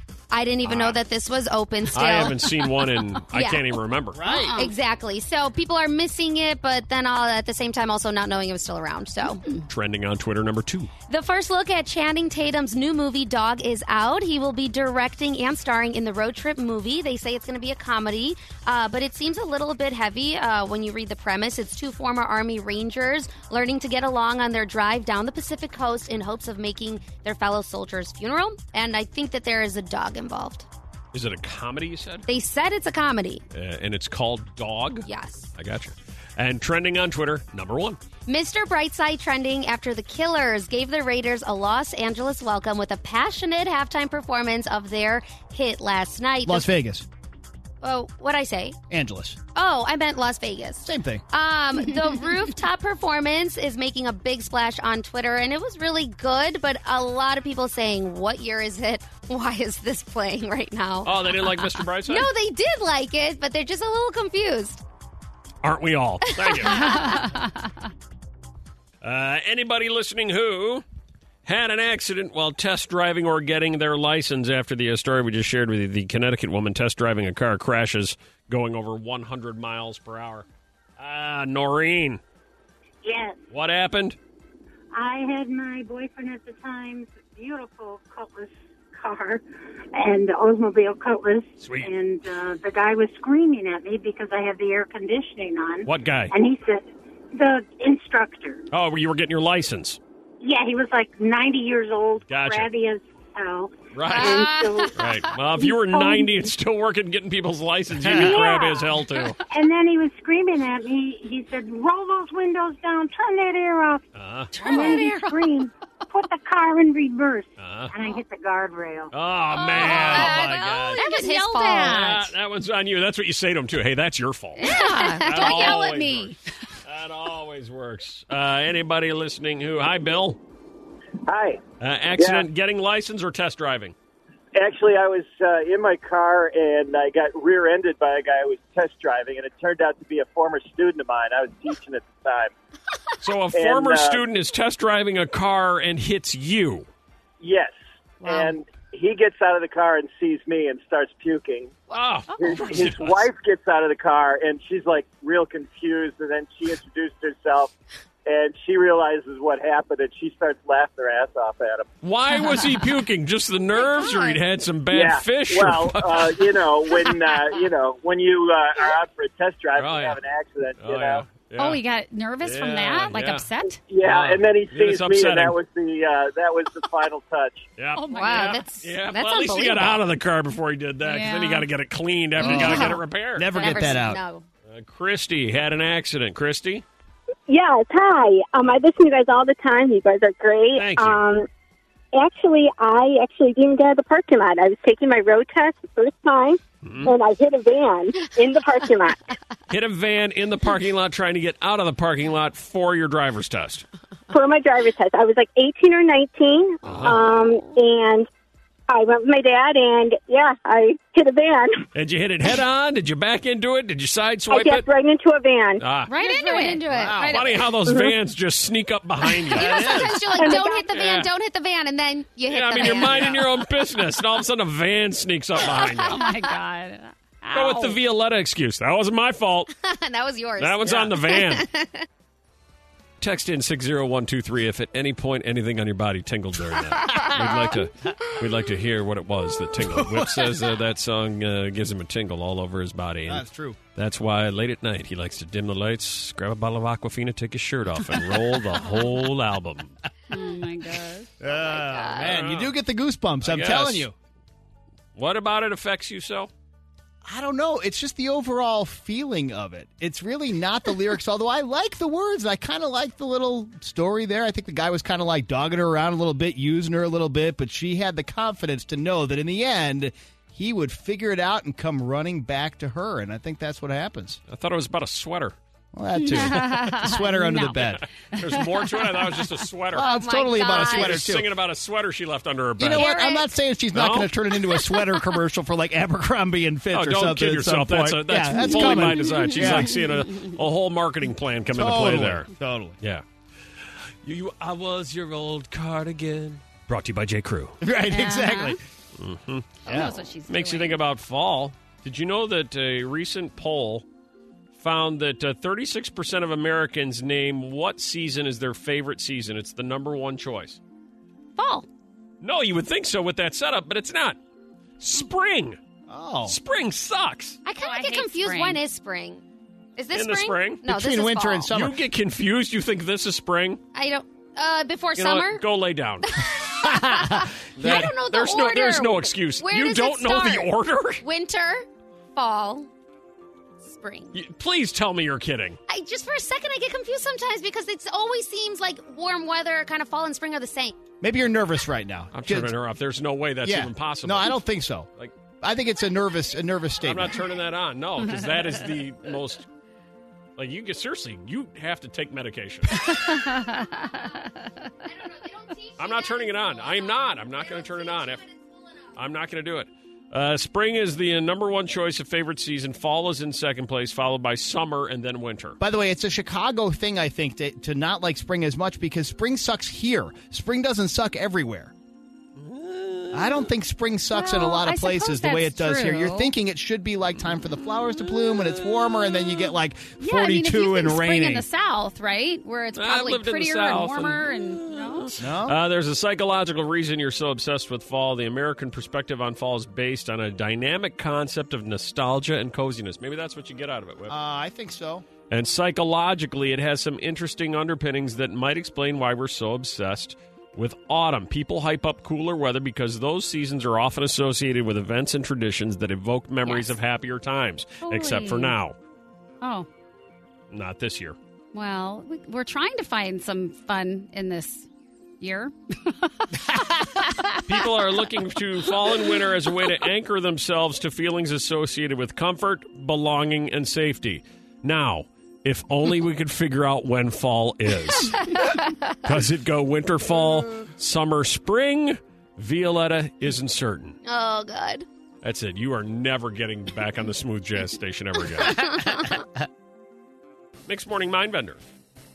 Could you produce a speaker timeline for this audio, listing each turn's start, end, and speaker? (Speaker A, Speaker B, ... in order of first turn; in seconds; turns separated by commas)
Speaker A: 0.3-2.5, Speaker B: 0.7-1.0, Speaker B: 1.9-4.2, Speaker A: 3.3-3.8, Speaker C: 4.1-4.6, Speaker D: 4.2-4.7, Speaker A: 4.5-9.4, Speaker B: 9.7-10.9, Speaker A: 11.1-30.7, Speaker B: 31.1-32.3, Speaker A: 32.3-33.4, Speaker B: 33.5-38.0, Speaker A: 35.0-35.5, Speaker A: 38.3-46.7, Speaker C: 46.5-47.1, Speaker A: 47.8-48.8, Speaker C: 48.9-49.4, Speaker A: 49.5-64.8, Speaker C: 50.8-51.2, Speaker B: 61.0-62.3, Speaker B: 65.6-66.9, Speaker A: 66.4-67.2, Speaker D: 66.7-67.5, Speaker B: 69.0-70.8, Speaker B: 71.5-80.5, Speaker B: 81.0-82.2, Speaker E: 83.0-83.4, Speaker B: 83.5-84.2, Speaker E: 84.9-98.7, Speaker B: 91.6-91.9, Speaker B: 95.8-96.3, Speaker B: 98.7-100.0, Speaker E: 100.4-106.5, Speaker B: 102.3-102.7, Speaker B: 103.9-109.4, Speaker A: 104.1-104.9, Speaker C: 108.0-108.4, Speaker E: 108.1-114.0, Speaker B: 114.2-114.5, Speaker D: 114.5-115.4, Speaker E: 114.6-119.1, Speaker A: 114.7-115.1, Speaker B: 117.6-118.0, Speaker B: 119.1-121.0, Speaker A: 119.5-122.0, Speaker D: 119.8-120.3, Speaker D: 121.0-122.3, Speaker B: 121.8-126.3, Speaker D: 124.6-126.4, Speaker A: 124.6-125.9, Speaker B: 126.8-130.4, Speaker F: 131.3-131.6, Speaker B: 131.8-133.9, Speaker F: 132.2-132.5, Speaker F: 134.5-142.5, Speaker B: 143.2-146.9, Speaker F: 143.5-144.2, Speaker F: 147.4-151.8, Speaker B: 151.9-153.3, Speaker F: 152.4-157.7, Speaker F: 158.2-161.9, Speaker B: 162.0-166.6, Speaker A: 164.0-164.4, Speaker F: 164.9-171.3, Speaker B: 169.8-170.2, Speaker B: 170.8-171.8, Speaker D: 171.6-173.8, Speaker B: 172.4-173.4, Speaker F: 173.9-177.7, Speaker B: 174.0-175.6, Speaker B: 177.8-183.7, Speaker D: 178.0-178.6, Speaker A: 178.1-180.0, Speaker D: 181.0-181.7, Speaker A: 182.4-183.0, Speaker C: 182.4-184.2, Speaker A: 183.5-184.4, Speaker B: 184.7-186.8, Speaker G: 187.5-191.5, Speaker B: 190.7-191.2, Speaker G: 192.1-199.2, Speaker B: 196.8-197.1, Speaker B: 199.7-203.8, Speaker G: 204.3-208.3, Speaker B: 206.8-207.3, Speaker G: 208.9-211.9, Speaker B: 211.9-214.9, Speaker G: 214.5-215.9, Speaker B: 215.8-216.1, Speaker D: 216.1-216.8, Speaker A: 216.1-217.6, Speaker C: 216.9-217.5, Speaker B: 217.2-220.1, Speaker G: 217.9-218.1, Speaker C: 219.5-220.3, Speaker A: 219.5-223.5, Speaker G: 220.4-220.9, Speaker B: 220.9-221.3, Speaker B: 222.5-226.2, Speaker C: 223.1-223.4, Speaker D: 226.1-228.0, Speaker B: 227.5-229.7, Speaker A: 229.7-232.1, Speaker B: 230.6-231.7, Speaker B: 233.2-249.9, Speaker C: 237.2-237.4, Speaker C: 239.8-240.7, Speaker C: 243.3-243.8, Speaker D: 250.3-251.3, Speaker C: 251.4-254.1, Speaker A: 251.5-252.3, Speaker B: 252.2-252.7, Speaker B: 253.4-254.1, Speaker B: 255.2-256.5, Speaker C: 257.2-274.4, Speaker B: 274.5-275.6, Speaker C: 275.9-278.0, Speaker D: 276.1-278.6, Speaker B: 278.4-283.1, Speaker C: 279.9-281.5, Speaker A: 280.0-281.2, Speaker C: 282.8-290.0, Speaker A: 282.9-283.5, Speaker B: 283.9-284.3, Speaker B: 286.9-292.5, Speaker C: 291.7-293.0, Speaker B: 294.2-297.8, Speaker C: 297.8-298.8, Speaker D: 298.1-298.8, Speaker B: 299.2-304.1, Speaker D: 299.9-301.0, Speaker C: 299.9-300.1, Speaker B: 304.8-310.8, Speaker D: 311.6-311.9, Speaker B: 312.4-314.4, Speaker B: 315.0-315.8, Speaker C: 316.1-316.6, Speaker B: 316.5-317.6, Speaker A: 317.6-319.4, Speaker D: 317.8-318.8, Speaker A: 320.0-321.7, Speaker B: 320.1-320.8, Speaker C: 320.9-322.0, Speaker B: 321.7-323.8, Speaker A: 323.9-325.6, Speaker B: 325.2-326.3, Speaker A: 326.2-332.9, Speaker C: 326.9-327.3, Speaker B: 327.8-331.2, Speaker A: 333.8-334.4, Speaker B: 334.3-335.8, Speaker A: 335.9-341.0, Speaker C: 341.2-342.8, Speaker B: 342.3-344.6, Speaker C: 343.6-345.1, Speaker C: 345.6-347.4, Speaker B: 347.0-349.7, Speaker B: 350.6-353.1, Speaker D: 353.0-354.7, Speaker A: 355.0-359.1, Speaker B: 356.0-358.4, Speaker B: 359.1-365.8, Speaker C: 365.8-371.9, Speaker B: 372.6-373.7, Speaker C: 373.3-381.7, Speaker D: 374.3-376.5, Speaker B: 378.6-378.9, Speaker D: 380.2-385.3, Speaker B: 382.9-394.4, Speaker C: 385.4-385.8, Speaker C: 394.3-395.3, Speaker B: 395.5-408.9, Speaker D: 406.6-407.0, Speaker D: 408.0-408.8, Speaker D: 409.6-409.9, Speaker B: 410.7-411.4, Speaker D: 411.7-414.9, Speaker D: 415.4-416.4, Speaker D: 417.2-417.6, Speaker B: 417.7-428.7, Speaker B: 429.2-434.2, Speaker A: 434.2-435.1, Speaker B: 435.4-439.0, Speaker A: 438.7-439.3, Speaker B: 440.9-441.8